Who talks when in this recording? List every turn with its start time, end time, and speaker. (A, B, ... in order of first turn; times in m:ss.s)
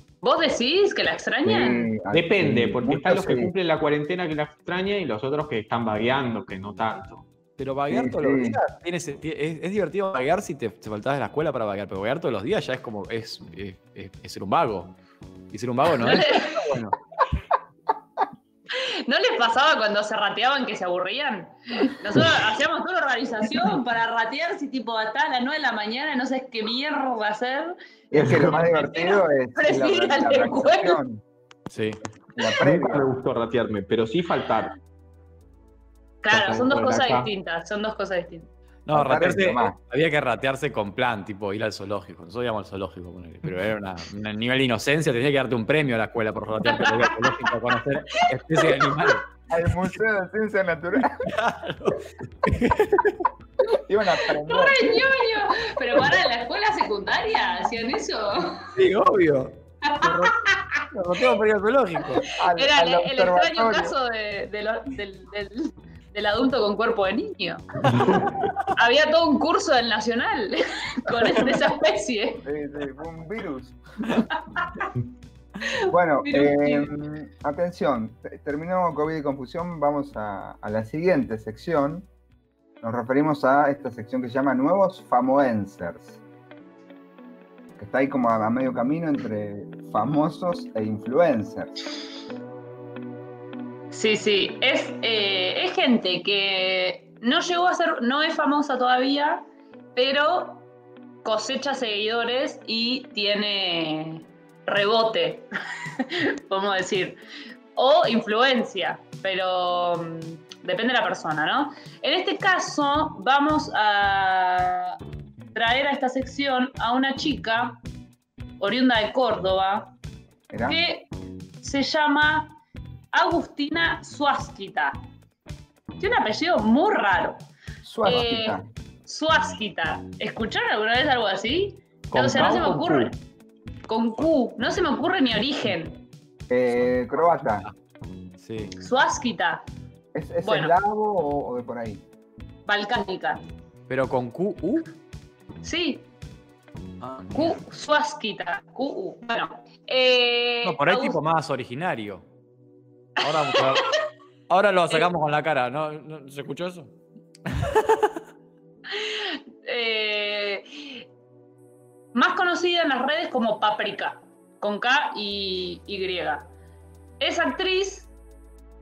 0:00.2-0:01.9 A
0:01.4-0:03.5 B
0:02.1-0:07.2 C
0:07.6-0:15.0 D
0:07.9-0:08.6 B
0:15.5-0:17.0 D
0:16.0-0:16.6 A
0:18.7-0:27.8 A
0:28.1-0:31.2 B
0:28.1-0:28.7 C
0:28.6-0:31.0 A
0:31.7-0:32.0 D
0:32.4-0:33.1 B
0:32.6-0:34.8 C
0:36.2-0:38.5 A
0:36.3-0:37.3 C
0:38.9-0:49.3 D
0:38.9-0:39.8 B
0:46.6-0:47.5 A
0:48.2-0:48.9 A
0:49.5-0:51.3 B
0:51.2-0:53.3 D
0:53.8-0:55.0 B
0:54.4-0:58.7 A
0:58.7-1:02.3 D
0:59.8-1:00.8 A
1:02.3-1:03.9 B
1:02.5-1:07.6 A
1:08.7-1:12.4 A
1:12.4-1:13.8 B
1:14.3-1:14.9 A
1:15.6-1:16.9 A
1:15.9-1:22.1 B
1:22.8-1:26.2 B
1:27.8-1:31.7 B
1:33.9-1:39.4 A
1:40.0-1:40.6 A
1:41.2-1:45.5 A
1:46.0-1:47.2 A
1:47.8-1:55.0 A
1:55.5-1:57.8 A
1:58.6-1:59.9 A
2:00.5-2:00.8 B
2:00.7-2:01.1 A
2:01.6-2:02.6 A
2:03.1-2:05.0 A
2:06.0-2:07.4 A
2:07.8-2:08.7 B
2:08.0-2:13.2 A
2:12.1-2:13.1 C
2:13.9-2:16.0 A
2:16.5-2:17.7 B
2:17.4-2:17.7 D
2:18.4-2:18.7 D
2:18.8-2:19.6 A
2:20.1-2:22.0 B
2:20.4-2:20.8 A
2:22.7-2:23.4 A
2:23.9-2:24.9 D
2:25.6-2:26.1 A
2:27.0-2:27.6 D
2:27.3-2:31.2 A
2:30.6-2:32.2 D
2:33.2-2:33.9 D
2:33.5-2:33.9 A
2:34.5-2:36.9 D
2:37.5-2:38.2 D
2:38.9-2:41.0 A
2:42.1-2:46.5 A
2:47.2-2:48.1 A